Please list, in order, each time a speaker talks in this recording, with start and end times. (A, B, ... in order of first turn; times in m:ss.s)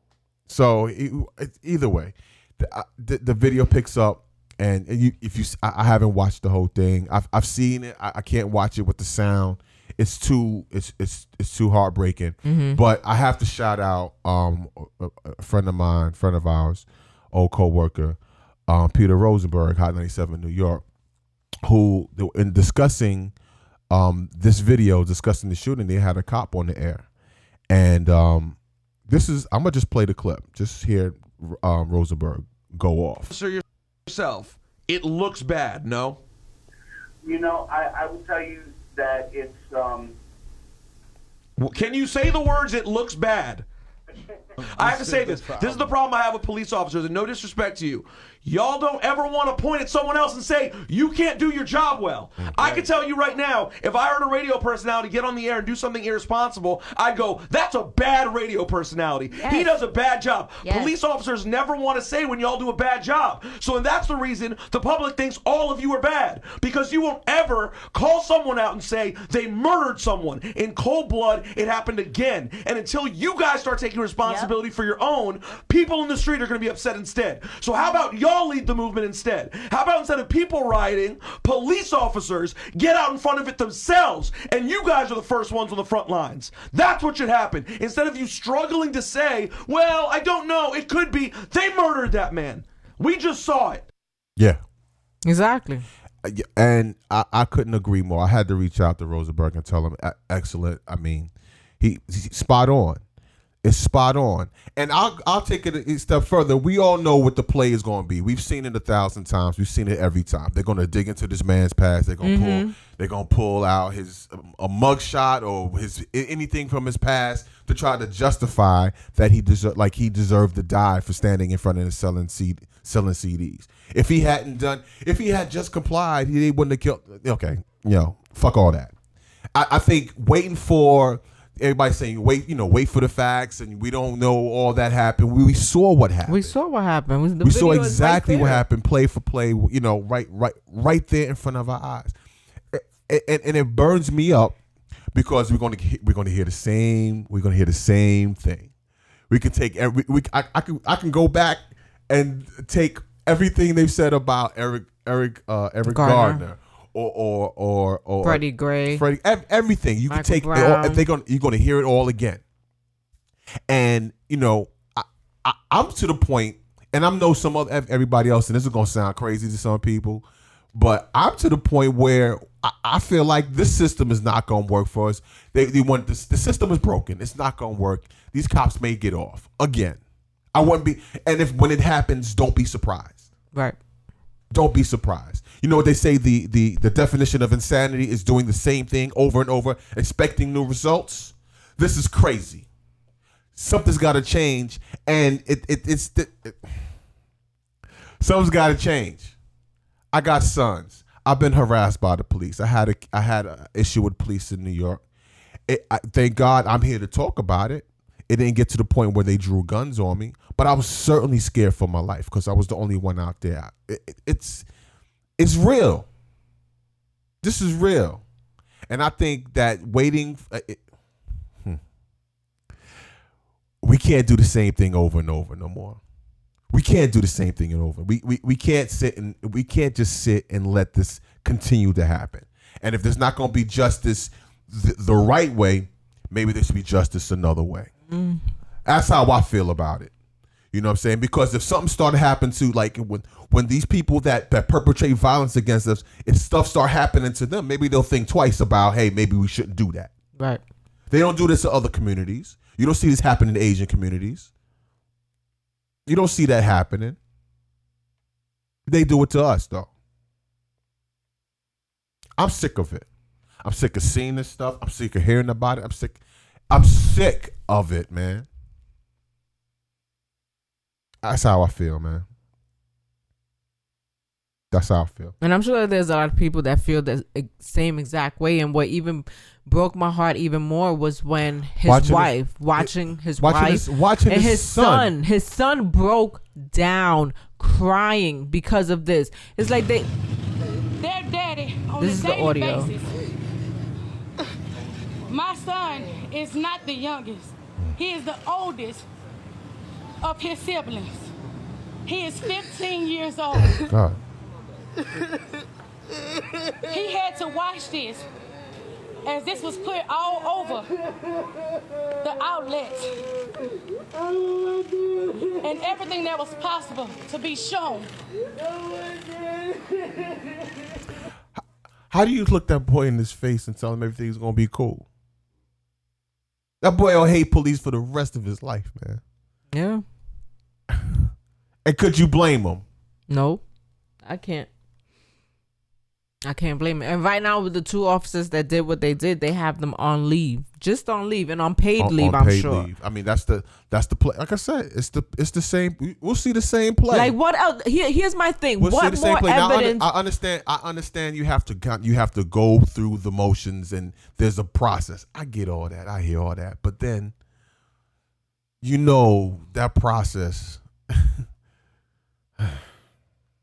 0:00.5-0:20.8 A
0:12.4-0:12.8 B
0:21.6-0:23.3 A
0:23.9-0:27.0 A
0:27.7-0:33.3 A
0:33.3-0:36.2 C
0:37.2-0:40.2 D
0:41.6-0:43.7 C
0:44.6-1:33.9 C
0:52.4-0:52.8 A
1:35.2-1:35.8 B
1:36.2-1:43.0 A
1:43.6-2:08.9 A
1:52.2-1:52.8 B
2:09.5-2:16.5 A
2:16.3-2:18.6 B
2:17.4-2:22.1 A
2:22.7-2:24.6 A
2:25.1-2:28.7 A
2:29.3-2:42.4 A
2:35.9-2:36.4 B
2:38.2-2:39.0 B
2:40.1-2:41.0 B
2:43.7-3:00.0 A
3:00.5-3:03.3 A
3:04.5-3:12.7 A
3:13.6-3:16.9 A
3:18.2-3:19.3 A
3:20.1-3:25.0 A
3:25.7-3:34.6 A
3:35.4-3:36.1 A
3:37.4-3:38.2 A
3:38.9-3:40.8 A
3:43.8-3:46.0 A
3:46.7-3:57.9 A
3:58.1-3:58.4 B
3:58.8-4:00.1 A
4:00.7-4:10.1 A
4:10.4-4:10.6 B
4:11.1-4:14.5 A
4:16.0-4:17.2 A
4:18.9-4:19.9 A
4:22.4-4:23.1 A
4:23.6-4:28.5 A
4:31.2-4:32.2 A
4:34.7-4:35.3 A
4:35.4-4:50.1 B
4:41.8-4:45.1 A
4:51.0-4:53.2 E
4:52.0-4:52.9 B
4:55.2-4:59.0 E
5:00.2-5:01.3 E
5:02.0-5:03.9 E
5:03.7-5:04.2 A
5:06.9-5:08.2 E
5:09.2-5:10.9 E
5:12.2-5:13.2 E
5:15.6-5:18.1 E
5:22.1-5:25.0 A
5:26.8-5:29.2 A
5:29.7-5:30.0 B
5:30.9-5:31.3 A
5:31.8-5:32.8 A
5:33.3-5:33.6 B
5:34.2-5:34.7 B
5:36.4-5:42.9 B
5:42.0-5:47.3 A
5:47.1-5:50.1 B
5:48.8-5:57.3 A
5:58.8-6:01.4 A